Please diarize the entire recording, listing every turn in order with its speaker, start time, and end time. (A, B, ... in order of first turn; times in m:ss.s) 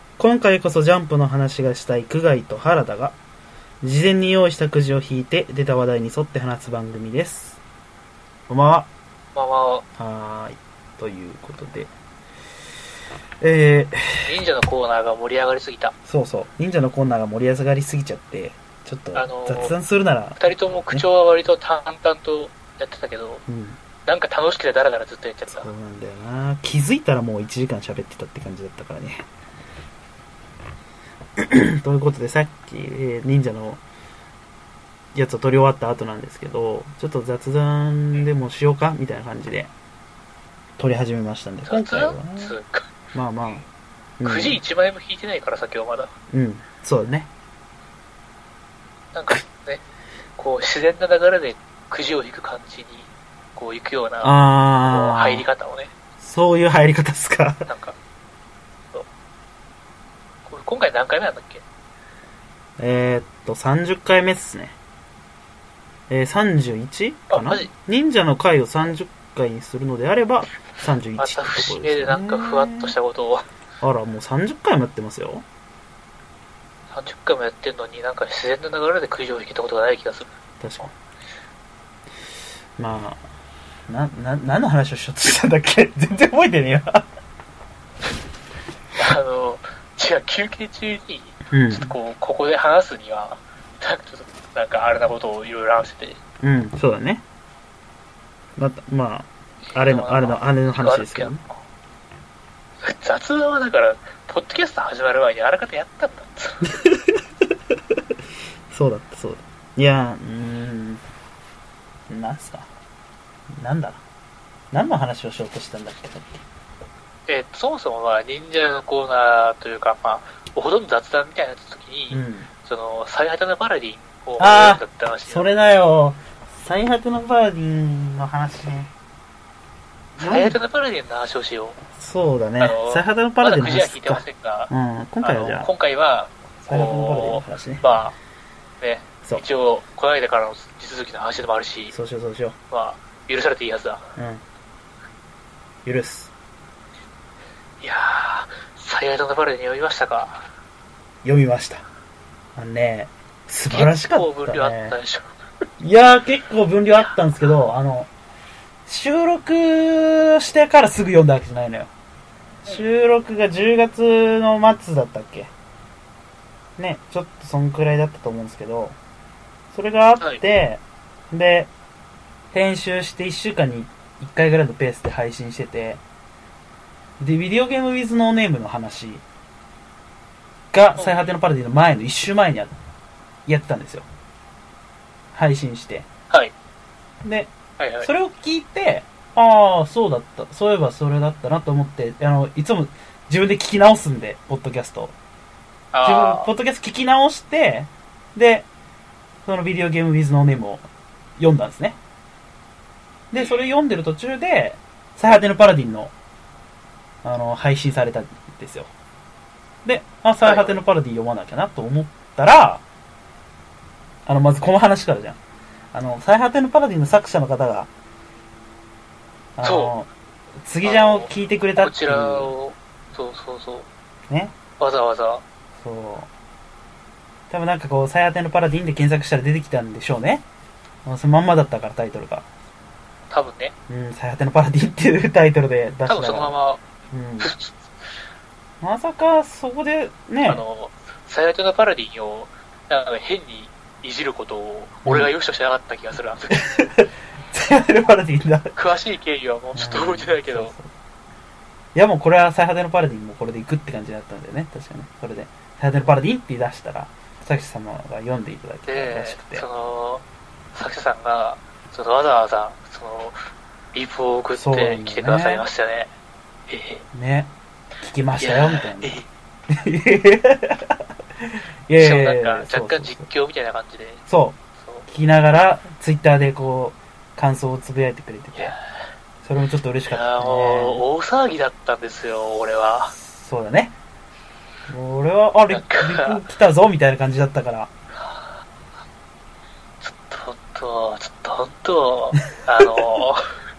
0:00.2-0:03.2 A
0:03.8-0:07.6 A
0:08.5-0:08.9 A
0:09.3-0:09.8 B
0:10.0-0:11.9 A
0:13.4-0:14.3 A
0:14.3-0:15.9 B
0:16.0-0:21.0 A
0:19.1-0:19.8 B
0:20.4-0:23.4 B
0:23.5-0:23.8 A
0:24.0-0:25.7 B
0:25.5-0:29.2 A
0:31.4-0:33.8 A
0:35.1-0:39.7 A
0:40.8-0:42.6 A
0:41.7-0:42.9 B
0:43.1-0:43.6 A
0:44.2-0:44.6 A
0:44.2-0:46.1 B
0:46.3-0:47.3 A
0:49.1-0:49.8 B
0:50.4-0:54.3 B
0:54.2-0:55.5 A
0:54.9-0:55.9 B
0:56.2-0:57.7 A
0:57.7-0:58.0 B
1:00.4-1:01.6 B
1:02.8-1:04.8 A
1:06.1-1:12.9 A
1:07.3-1:07.7 B
1:11.2-1:13.5 B
1:13.8-1:15.4 A
1:16.9-1:20.3 B
1:20.6-1:20.9 A
1:22.8-1:23.2 A
1:23.9-1:27.0 A
1:29.0-1:36.2 B
1:31.5-1:32.0 A
1:36.4-1:37.2 A
1:38.6-1:41.4 A
1:39.7-1:41.5 B
1:42.8-1:46.7 B
1:46.6-1:47.2 A
1:48.7-1:51.0 A
1:52.1-1:52.7 A
1:53.6-1:54.0 A
1:54.7-1:56.4 A
1:57.3-2:05.4 B
2:02.1-2:02.5 A
2:04.4-2:08.9 A
2:10.2-2:10.6 A
2:10.2-2:11.8 B
2:11.9-2:15.7 A
2:12.6-2:18.2 B
2:16.6-2:17.8 A
2:18.8-2:21.9 B
2:21.9-2:22.6 A
2:22.7-2:24.0 B
2:24.2-2:24.4 A
2:25.8-2:26.3 A
2:27.8-2:30.4 B
2:31.2-2:31.8 A
2:32.6-2:35.0 A
2:33.7-2:35.3 B
2:35.8-2:38.1 A
2:38.9-2:41.9 A
2:42.6-2:45.5 A
2:46.8-2:49.0 A
2:49.7-2:51.7 A
2:52.5-2:56.0 A
2:57.2-2:59.2 A
3:00.7-3:02.7 A
3:01.0-3:01.3 B
3:03.5-3:04.1 A
3:05.3-3:06.1 A
3:07.2-3:15.1 A
3:07.8-3:08.1 B
3:15.9-3:16.5 B
3:16.0-3:18.7 A
3:19.4-3:20.8 A
3:21.4-3:22.0 A
3:23.3-3:26.1 A
3:23.4-3:23.6 B
3:27.2-3:28.9 A
3:29.8-3:32.8 A
3:30.4-3:30.8 B
3:34.2-3:35.4 A
3:35.9-3:37.9 A
3:39.6-3:40.1 A
3:39.6-3:39.9 B
3:40.6-3:42.5 A
3:40.8-3:43.9 B
3:44.3-3:44.5 A
3:44.8-3:45.4 B
3:45.8-3:46.3 A
3:47.5-3:50.4 A
3:51.0-3:52.4 A
3:53.3-3:53.7 B
3:53.9-3:56.5 A
3:56.1-3:56.8 B
3:57.1-3:57.5 A
3:57.4-3:57.8 B
3:58.8-4:00.6 A
4:00.5-4:06.6 B
4:05.0-4:05.3 A
4:06.5-4:08.8 A
4:08.8-4:10.7 B
4:09.7-4:10.9 A
4:11.9-4:19.6 A
4:18.9-4:23.4 B
4:23.9-4:26.1 B
4:24.6-4:25.6 A
4:26.7-4:27.0 B
4:27.1-4:33.3 A
4:28.4-4:29.3 B
4:32.0-4:34.2 B
4:34.3-4:38.8 A
4:34.8-4:35.0 B
4:39.4-4:41.0 A
4:40.1-4:43.1 B
4:43.1-4:43.9 A
4:44.9-4:47.9 A
4:45.7-4:46.4 B
4:48.1-4:48.6 B
4:50.0-4:53.5 B